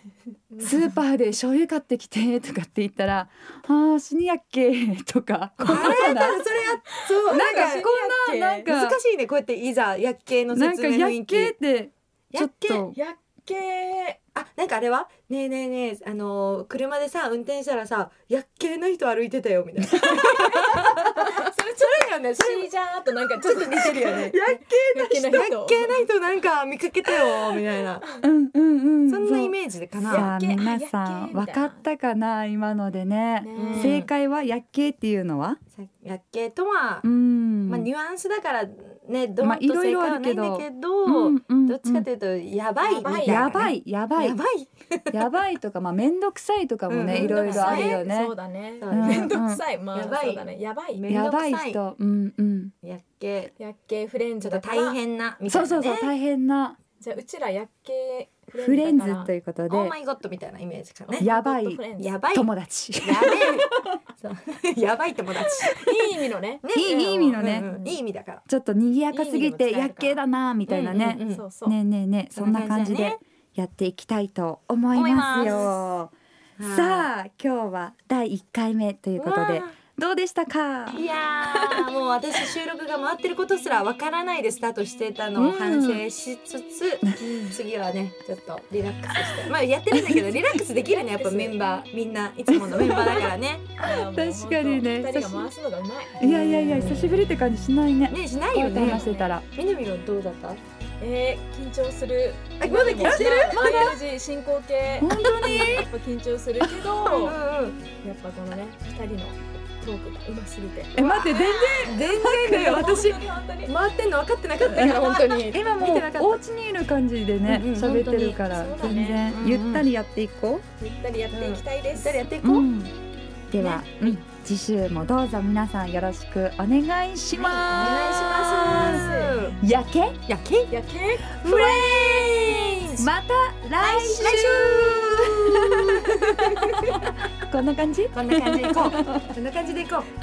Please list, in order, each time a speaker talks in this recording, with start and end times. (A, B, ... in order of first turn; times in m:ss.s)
0:00.5-0:01.0 A
0:00.6-0:06.4 B
0:05.6-0:07.9 C
0:05.7-0:08.7 A
0:07.3-0:09.0 B
0:08.6-0:11.6 C
0:10.5-0:13.0 B
0:12.3-0:12.9 C
0:12.9-0:14.2 A
0:14.4-0:22.7 C
0:20.0-0:26.0 A
0:23.4-0:28.0 C
0:24.4-0:25.0 B
0:28.2-0:29.5 B
0:29.1-0:30.3 C
0:30.0-0:31.9 A
0:30.1-0:35.6 B
0:33.4-0:34.0 A
0:33.5-0:34.1 C
0:35.7-0:37.1 C
0:37.0-0:37.9 B
0:37.7-0:45.3 C
0:39.4-0:42.1 B
0:42.8-0:43.6 A
0:43.2-0:44.4 B
0:45.1-0:48.3 B
0:46.9-0:48.0 C
0:47.1-0:51.2 A
0:48.8-0:49.4 C
0:48.9-0:49.6 B
0:49.9-0:51.8 C
0:51.1-0:52.7 B
0:52.8-0:53.6 C
0:53.6-0:55.0 A
0:54.4-0:56.1 C
0:55.5-0:56.8 B
0:57.0-0:59.3 A
0:58.6-0:59.9 B
0:59.7-1:01.3 C
1:01.1-1:02.2 A
1:01.2-1:03.6 B
1:02.0-1:02.5 C
1:03.0-1:05.9 C
1:05.6-1:06.6 A
1:06.6-1:08.4 C
1:06.7-1:07.7 B
1:07.6-1:08.0 A
1:08.5-1:16.1 B
1:09.1-1:10.2 A
1:10.7-1:11.4 C
1:11.2-1:11.8 A
1:12.4-1:13.2 C
1:14.9-1:15.8 C
1:16.6-1:17.1 C
1:16.7-1:21.0 B
1:19.2-1:19.8 C
1:21.0-1:33.7 C
1:25.4-1:26.0 B
1:27.2-1:27.6 A
1:29.3-1:30.4 B
1:30.8-1:31.6 A
1:32.5-1:33.3 B
1:33.8-1:36.2 A
1:33.9-1:35.5 B
1:36.2-1:39.4 B
1:36.2-1:37.2 C
1:38.1-1:40.6 C
1:38.7-1:39.4 A
1:41.0-1:47.4 A
1:42.6-1:44.0 C
1:43.1-1:43.9 B
1:45.0-1:45.9 B
1:47.0-1:47.8 C
1:48.0-1:53.7 A
1:51.0-1:52.8 B
1:51.8-1:56.4 C
1:54.6-2:00.6 B
1:57.5-1:58.4 C
1:58.3-1:59.3 A
1:59.3-1:59.9 C
2:00.8-2:02.3 A
2:01.3-2:02.7 C
2:02.4-2:02.9 B
2:03.5-2:09.0 B
2:03.6-2:04.2 C
2:07.4-2:09.6 C
2:07.6-2:09.6 A
2:09.6-2:10.2 B
2:10.3-2:10.7 C
2:10.7-2:11.4 A
2:11.4-2:13.1 C
2:11.4-2:16.0 B
2:13.8-2:16.0 C
2:17.5-2:19.3 B
2:18.1-2:20.1 C